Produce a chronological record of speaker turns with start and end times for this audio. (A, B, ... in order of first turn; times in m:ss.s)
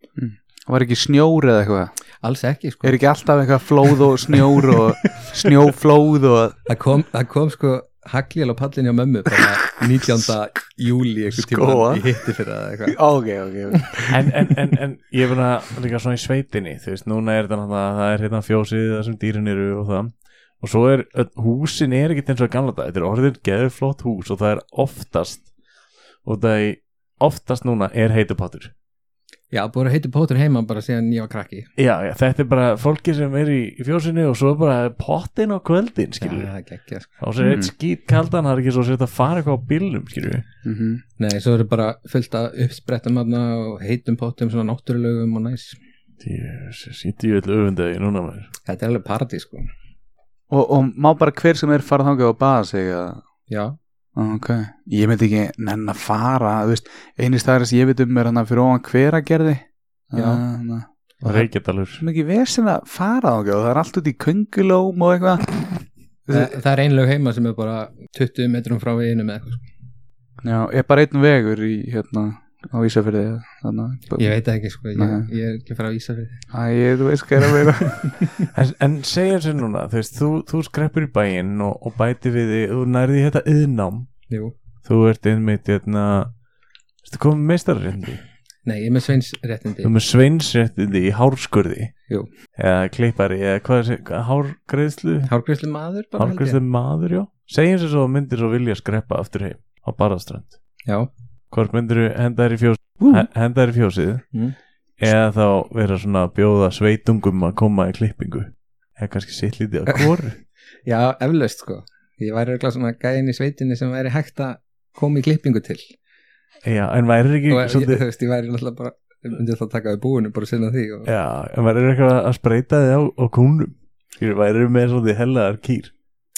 0:00.2-0:01.9 A
0:02.2-0:03.0 B
0:02.8-0:06.6 A
0:06.7-0:13.0 B
0:11.3-0:12.0 A
0:12.9-0:14.3 A
0:14.1-0:25.5 C
0:26.2-0:28.7 C
0:29.5-0:31.7 B
0:31.8-0:36.5 C
0:36.2-0:37.1 B
0:37.2-0:40.4 C
0:37.4-0:37.7 A
0:40.6-0:41.0 A
0:41.2-0:45.8 B
0:46.2-0:48.5 C
0:48.7-0:49.6 B
0:50.5-0:53.2 A
0:53.5-0:53.8 B
0:54.1-1:06.5 A
1:00.1-1:00.4 B
1:01.2-1:02.0 C
1:06.3-1:09.6 B
1:10.4-1:14.3 A
1:14.2-1:16.4 B
1:15.0-1:15.3 A
1:16.5-1:18.0 A
1:18.5-1:24.1 C
1:24.8-1:26.3 C
1:27.0-1:28.2 C
1:28.6-1:29.9 B
1:29.8-1:31.9 C
1:32.5-1:35.3 C
1:35.3-1:36.6 B
1:36.2-1:40.5 C
1:41.5-1:44.2 C
1:43.0-1:43.3 A
1:45.0-1:50.4 C
1:50.8-1:55.9 B
1:56.6-1:58.0 C
1:57.5-2:01.1 B
2:01.0-2:05.9 C